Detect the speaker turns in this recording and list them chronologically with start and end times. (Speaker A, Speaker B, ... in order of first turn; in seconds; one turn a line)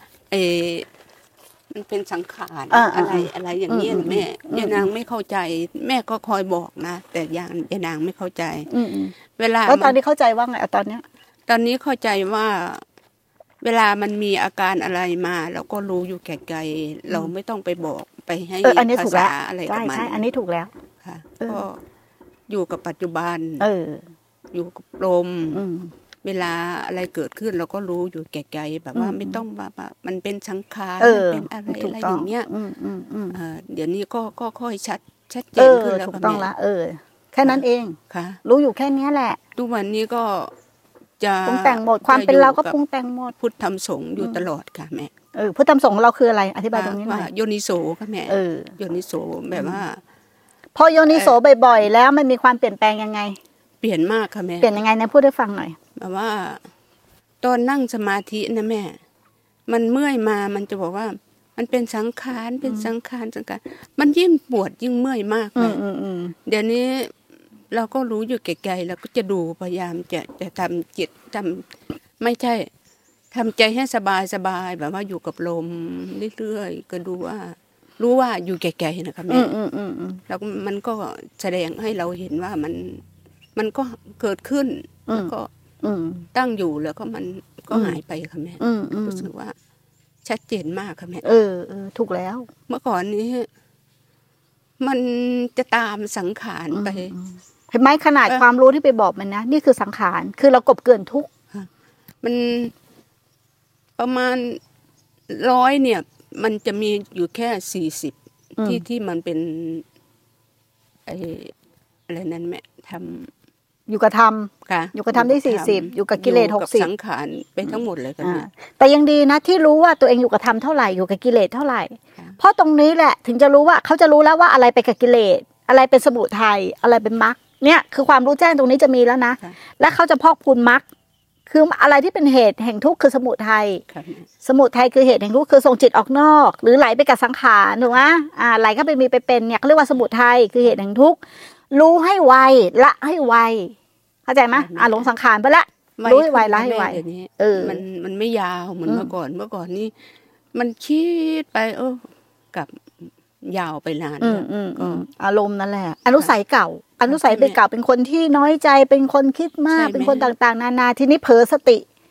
Speaker A: 0.3-0.9
Speaker A: 1.7-8.7
Speaker B: 2.7-4.9
Speaker B: 8.7-9.1
Speaker A: 9.3-9.9
Speaker B: 9.7-11.0
Speaker A: 11.5-12.8
Speaker A: 13.6-20.2
Speaker B: 18.6-20.7
Speaker A: 21.0-21.8
Speaker A: 22.5-23.6
Speaker B: 23.6-24.0
Speaker A: 24.5-25.6
Speaker B: 25.5-25.9
Speaker A: 26.2-32.5
Speaker B: 28.9-29.4
Speaker B: 31.0-33.4
Speaker A: 33.3-36.5
Speaker B: 35.6-39.4
Speaker A: 37.4-38.4
Speaker A: 39.5-40.5
Speaker A: 41.2-42.8
Speaker B: 41.4-43.3
Speaker A: 43.4-45.1
Speaker B: 45.3-47.3
Speaker A: 46.7-50.0
Speaker B: 48.3-48.8
Speaker B: 49.5-49.8
Speaker B: 50.7-53.4
Speaker A: 51.1-51.4
Speaker A: 53.8-54.7
Speaker B: 54.6-55.8
Speaker A: 56.0-56.6
Speaker A: 57.4-59.0
Speaker A: 59.7-65.8
Speaker B: 62.6-62.9
Speaker B: 65.5-66.3
Speaker A: 66.5-67.1
Speaker A: 67.7-71.7
Speaker A: 72.2-72.7
Speaker A: 73.3-79.5
Speaker B: 79.3-80.2
Speaker A: 80.3-83.0
Speaker A: 83.5-85.5
Speaker B: 85.1-86.3
Speaker A: 86.3-89.5
Speaker B: 87.7-88.0
Speaker B: 88.6-89.3
Speaker A: 90.2-91.2
Speaker B: 91.2-92.5
Speaker A: 92.7-93.5
Speaker A: 94.8-97.1
Speaker B: 96.7-101.3
Speaker A: 102.2-102.7
Speaker A: 104.0-104.6
Speaker A: 105.3-109.8
Speaker B: 108.6-108.8
Speaker A: 111.0-111.5
Speaker A: 112.1-113.3
Speaker B: 113.9-116.9
Speaker A: 114.7-118.5
Speaker B: 117.7-130.8
Speaker B: 131.5-133.8
Speaker A: 133.9-134.3
Speaker B: 134.4-141.2
Speaker B: 141.7-147.8
Speaker A: 144.5-145.1
Speaker A: 146.0-149.9
Speaker A: 150.5-152.8
Speaker A: 153.4-155.0
Speaker B: 154.2-161.8
Speaker A: 157.1-157.6
Speaker A: 159.7-160.3